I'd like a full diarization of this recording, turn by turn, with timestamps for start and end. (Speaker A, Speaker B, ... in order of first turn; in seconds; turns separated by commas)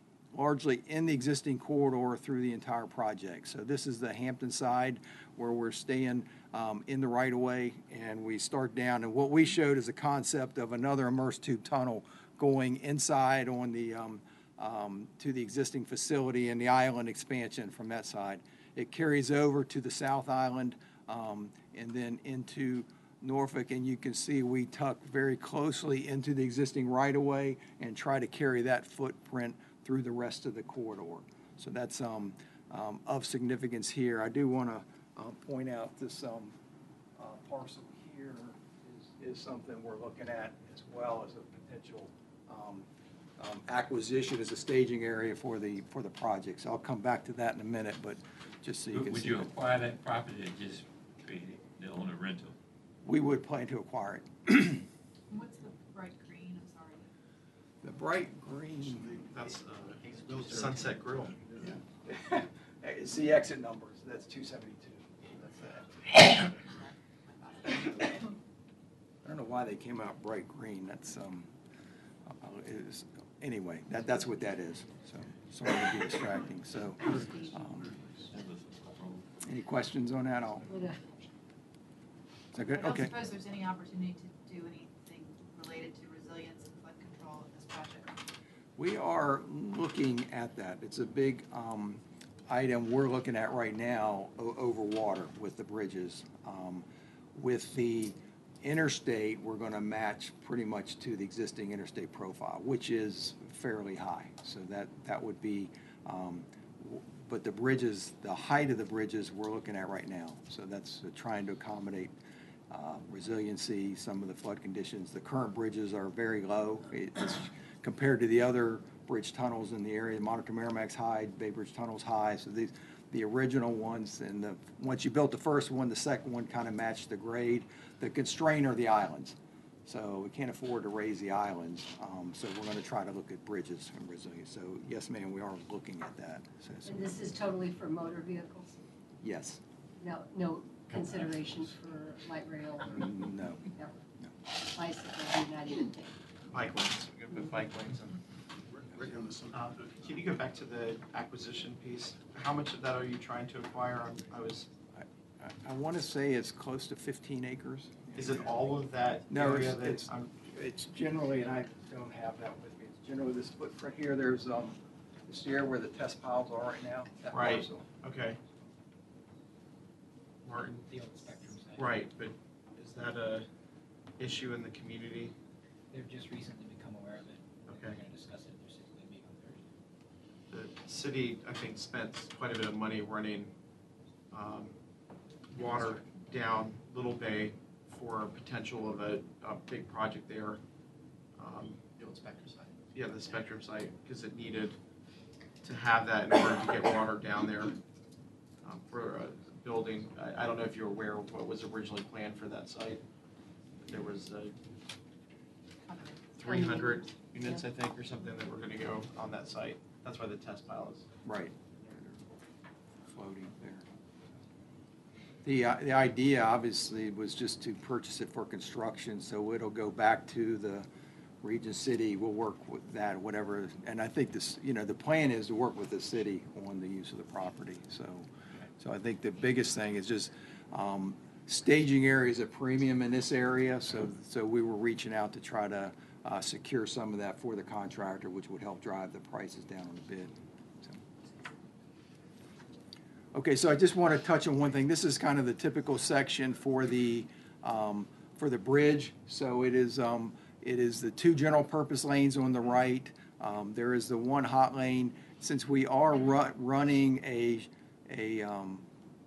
Speaker A: 0.3-36.5, Speaker A: 37.2-42.9, Speaker A: 43.4-49.5, Speaker B: 48.9-52.5, Speaker A: 53.0-54.8, Speaker C: 55.3-57.1, Speaker A: 57.8-59.2, Speaker D: 58.9-59.3, Speaker E: 59.3-61.4, Speaker D: 60.3-60.8, Speaker D: 61.4-61.7, Speaker A: 62.0-66.5, Speaker A: 67.7-68.1, Speaker A: 69.2-71.5, Speaker A: 72.3-77.9, Speaker B: 78.3-79.3, Speaker A: 79.4-80.6, Speaker F: 80.7-81.0, Speaker A: 82.5-83.1, Speaker C: 82.7-88.2, Speaker A: 88.8-112.1, Speaker A: 112.7-137.0, Speaker F: 136.8-138.8, Speaker A: 139.2-139.6, Speaker F: 140.0-143.0, Speaker A: 142.9-143.6, Speaker F: 143.7-144.0, Speaker F: 144.7-146.1, Speaker E: 146.5-148.2, Speaker D: 148.7-149.7, Speaker E: 149.5-154.7, Speaker A: 154.9-158.4, Speaker E: 158.1-160.3, Speaker A: 159.3-167.8, Speaker E: 167.3-168.4, Speaker E: 170.4-170.7, Speaker G: 170.5-172.1, Speaker E: 171.8-173.5, Speaker E: 174.2-175.3, Speaker G: 175.9-179.7, Speaker E: 177.7-178.0, Speaker E: 180.5-183.5, Speaker E: 184.3-184.7, Speaker E: 185.5-190.6, Speaker E: 191.4-194.8, Speaker E: 195.6-197.8, Speaker E: 198.6-203.0, Speaker E: 203.8-204.5, Speaker C: 205.8-207.4, Speaker E: 206.4-211.1, Speaker A: 211.2-211.5, Speaker A: 213.1-213.8, Speaker A: 215.4-220.9, Speaker A: 221.4-228.3, Speaker A: 228.8-241.0, Speaker A: 243.3-258.8